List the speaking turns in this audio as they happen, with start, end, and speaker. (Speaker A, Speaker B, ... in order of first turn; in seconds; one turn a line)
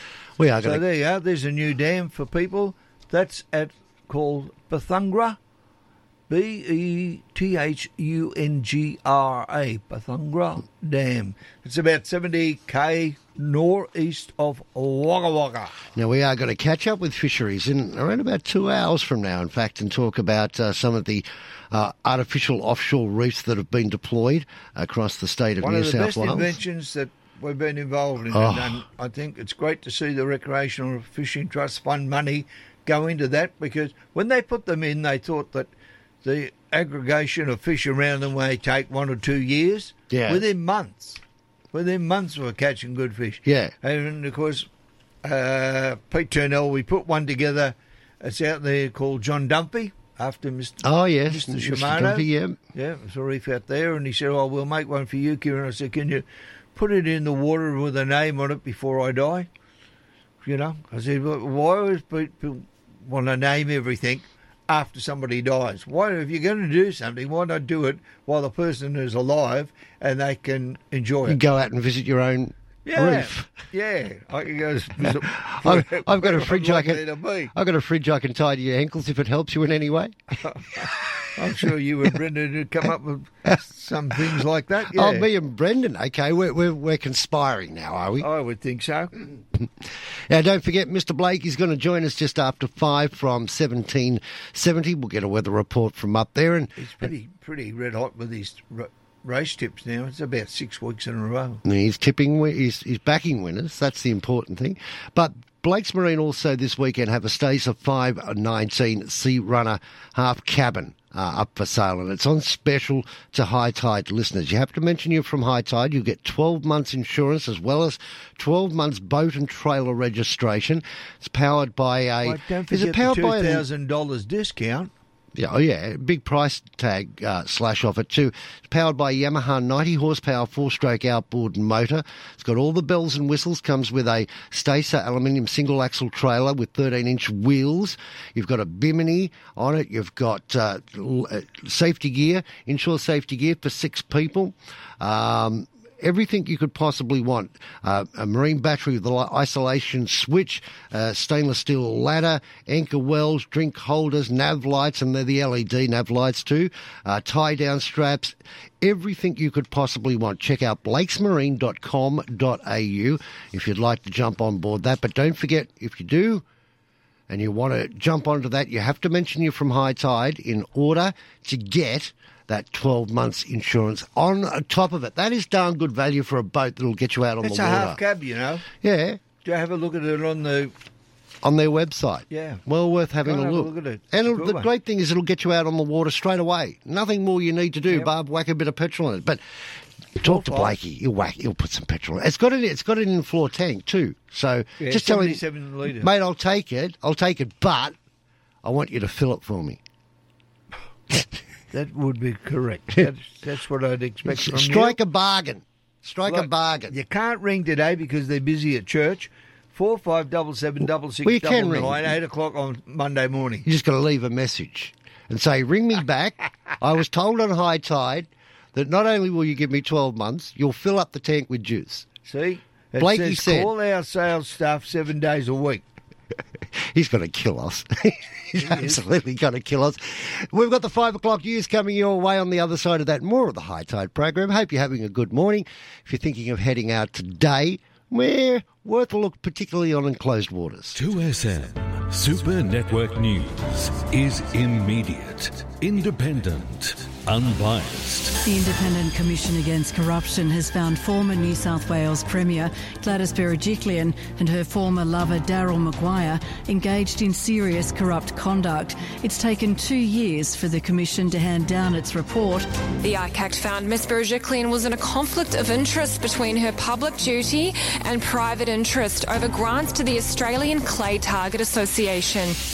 Speaker A: 0.4-0.8
Speaker B: 0.6-5.4
Speaker B: 6.3-15.8
Speaker A: 15.9-26.6
Speaker B: 25.6-35.7
Speaker A: 28.3-28.8
Speaker B: 36.2-41.2
Speaker A: 40.1-40.4
Speaker B: 41.7-44.7
Speaker A: 43.4-43.7
Speaker B: 45.2-59.5
Speaker A: 50.8-52.6
Speaker B: 60.4-71.4
Speaker A: 71.2-73.5
Speaker B: 72.8-77.5
Speaker A: 75.6-77.0
Speaker A: 77.5-80.1
Speaker B: 80.4-80.8
Speaker B: 81.4-85.3
Speaker A: 84.9-88.3
Speaker B: 88.2-89.1
Speaker A: 89.6-97.1
Speaker B: 96.8-101.6
Speaker A: 101.6-123.6
Speaker B: 122.2-124.9
Speaker A: 125.3-166.4
Speaker A: 167.3-178.0
Speaker B: 177.4-178.7
Speaker A: 178.7-179.2
Speaker B: 179.3-180.7
Speaker A: 181.4-189.4
Speaker B: 182.3-182.6
Speaker B: 183.2-184.7
Speaker A: 190.2-195.4
Speaker B: 190.2-190.8
Speaker B: 194.8-196.1
Speaker A: 196.0-197.9
Speaker A: 198.6-199.8
Speaker B: 201.7-205.0
Speaker A: 204.3-206.9
Speaker B: 206.3-213.6
Speaker A: 211.2-212.1
Speaker A: 213.6-222.1
Speaker B: 222.2-225.8
Speaker A: 223.0-223.7
Speaker A: 226.9-241.0
Speaker B: 228.6-229.0
Speaker C: 240.9-248.3
Speaker D: 248.4-262.6
Speaker E: 263.0-272.5